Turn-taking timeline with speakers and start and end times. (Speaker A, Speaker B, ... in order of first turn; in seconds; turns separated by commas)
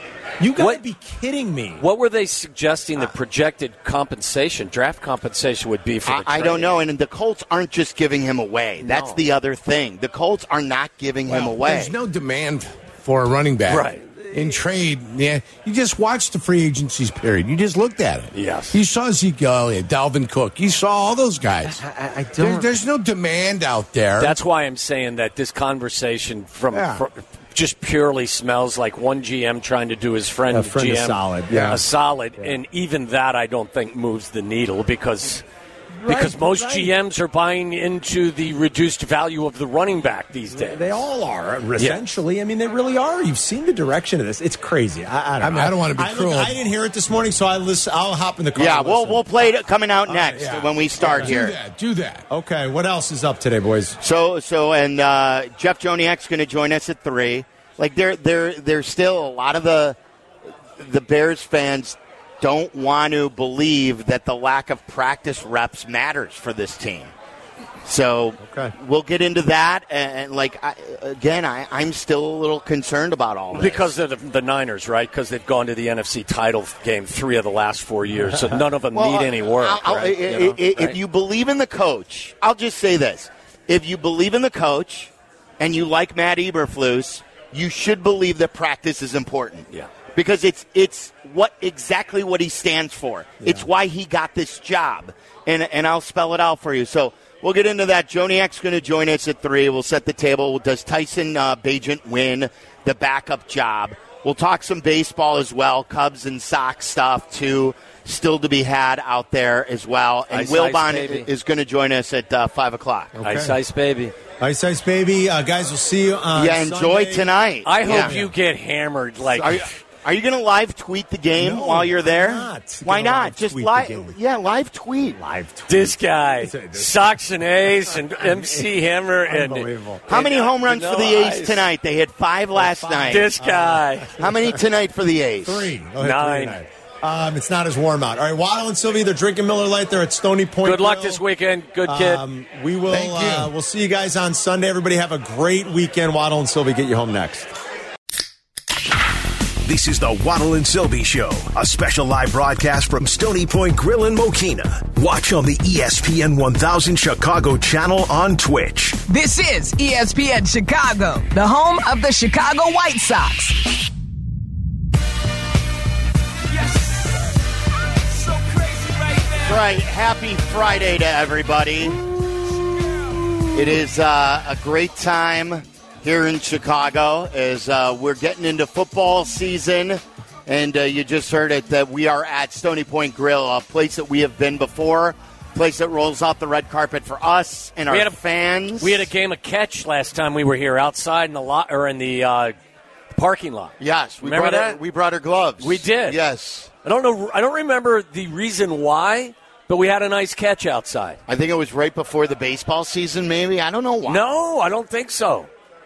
Speaker A: 0.4-1.8, Speaker B: 1.8-6.8, Speaker C: 6.0-11.9, Speaker B: 8.8-9.2, Speaker D: 11.3-21.8, Speaker B: 13.7-14.0, Speaker B: 18.3-18.8, Speaker A: 21.6-22.7, Speaker D: 22.4-24.3, Speaker B: 24.2-35.4, Speaker D: 26.7-27.0, Speaker A: 30.5-31.8, Speaker D: 31.5-31.8, Speaker A: 35.9-36.9, Speaker B: 36.1-41.0, Speaker A: 40.5-49.4, Speaker D: 45.4-46.5, Speaker C: 48.5-51.5, Speaker A: 50.1-51.3, Speaker D: 50.3-52.3, Speaker A: 52.3-54.0, Speaker C: 54.0-60.0, Speaker C: 60.8-67.1, Speaker C: 67.8-73.9, Speaker A: 68.4-68.7, Speaker B: 73.5-81.0, Speaker C: 78.9-113.1, Speaker A: 93.4-93.7, Speaker B: 110.3-111.3, Speaker A: 113.1-113.5, Speaker B: 113.2-114.1, Speaker A: 114.4-118.3, Speaker C: 116.3-118.2, Speaker B: 117.6-119.7, Speaker C: 119.3-125.2, Speaker A: 121.3-124.2, Speaker A: 125.1-128.7, Speaker B: 125.7-131.7, Speaker A: 129.2-130.1, Speaker C: 130.1-133.3, Speaker A: 132.5-134.6, Speaker B: 133.1-134.1, Speaker C: 134.2-135.7, Speaker A: 135.4-141.2, Speaker B: 136.0-136.6, Speaker B: 140.6-142.2, Speaker A: 141.8-147.5, Speaker D: 142.9-143.5, Speaker E: 149.6-159.0, Speaker F: 159.1-163.6, Speaker B: 166.7-167.0, Speaker B: 168.2-169.6, Speaker C: 169.4-172.0, Speaker C: 173.5-189.1, Speaker B: 187.9-188.2, Speaker B: 188.8-192.5, Speaker B: 193.1-194.8, Speaker C: 193.8-196.7, Speaker B: 195.6-196.2, Speaker B: 196.8-201.2, Speaker C: 201.3-204.2, Speaker B: 204.1-205.5